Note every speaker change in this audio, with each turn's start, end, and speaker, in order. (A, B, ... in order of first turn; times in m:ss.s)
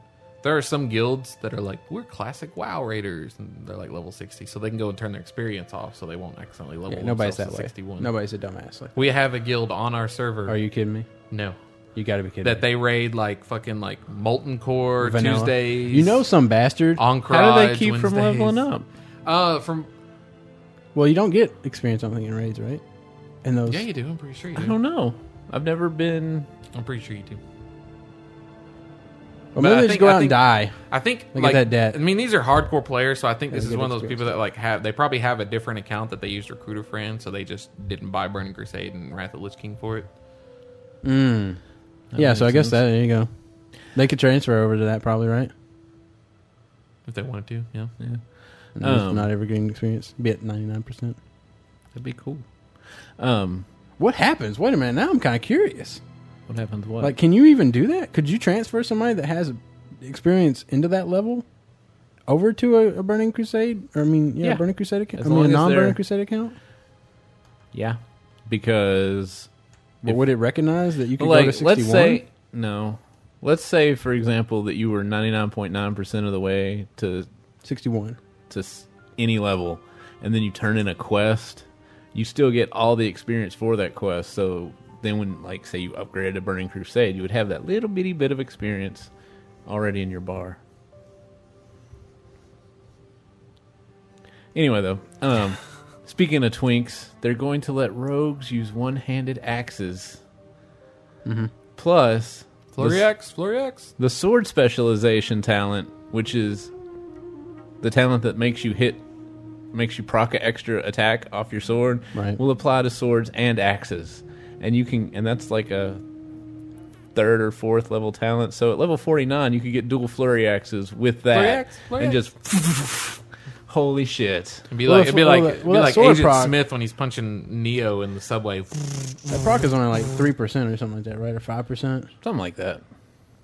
0:00.4-0:08.1 A
0:06.9-0:09.0 B
0:09.0-0:10.6 A
0:10.5-0:11.1 B
0:11.3-0:11.6 A
0:12.0-0:12.6 B
0:12.4-0:16.2 A
0:15.0-0:17.0 B
0:17.0-0:18.6 A
0:17.3-0:18.9 C
0:19.3-0:19.9 A
0:21.0-0:22.8 B
0:23.4-0:23.8 B
0:23.7-0:24.8 A
0:24.6-0:26.5 C
0:26.7-0:27.4 A
0:29.6-0:30.8 B
0:29.6-0:40.1 A
0:31.3-0:32.0 B
0:33.5-0:34.3 B
0:41.0-0:41.6 B
0:42.1-0:42.8 C
0:42.2-0:43.3 B
0:43.9-0:45.5 B
0:47.1-0:47.9 A
0:48.8-0:51.2 B
0:48.8-0:49.3 C
0:51.9-0:52.4 C
0:53.2-0:53.7 C
0:54.0-0:56.0 B
0:56.5-0:57.1 C
0:57.0-1:01.4 B
1:02.3-1:06.6 B
1:05.2-1:06.0 C
1:07.7-1:09.5 C
1:10.0-1:12.2 B
1:11.2-1:17.3 C
1:17.6-1:18.2 B
1:18.5-1:29.1 C
1:29.7-1:30.6 C
1:34.5-1:40.2 C
1:41.2-1:41.5 B
1:41.8-1:43.1 C
1:42.7-1:43.9 A
1:44.0-1:46.7 C
1:47.8-1:49.0 C
1:49.7-1:56.0 C
1:52.1-1:52.4 B
1:57.1-2:04.7 C
2:01.3-2:02.2 A
2:04.7-2:09.6 A
2:04.8-2:06.6 B
2:09.3-2:12.1 B
2:12.2-2:12.8 C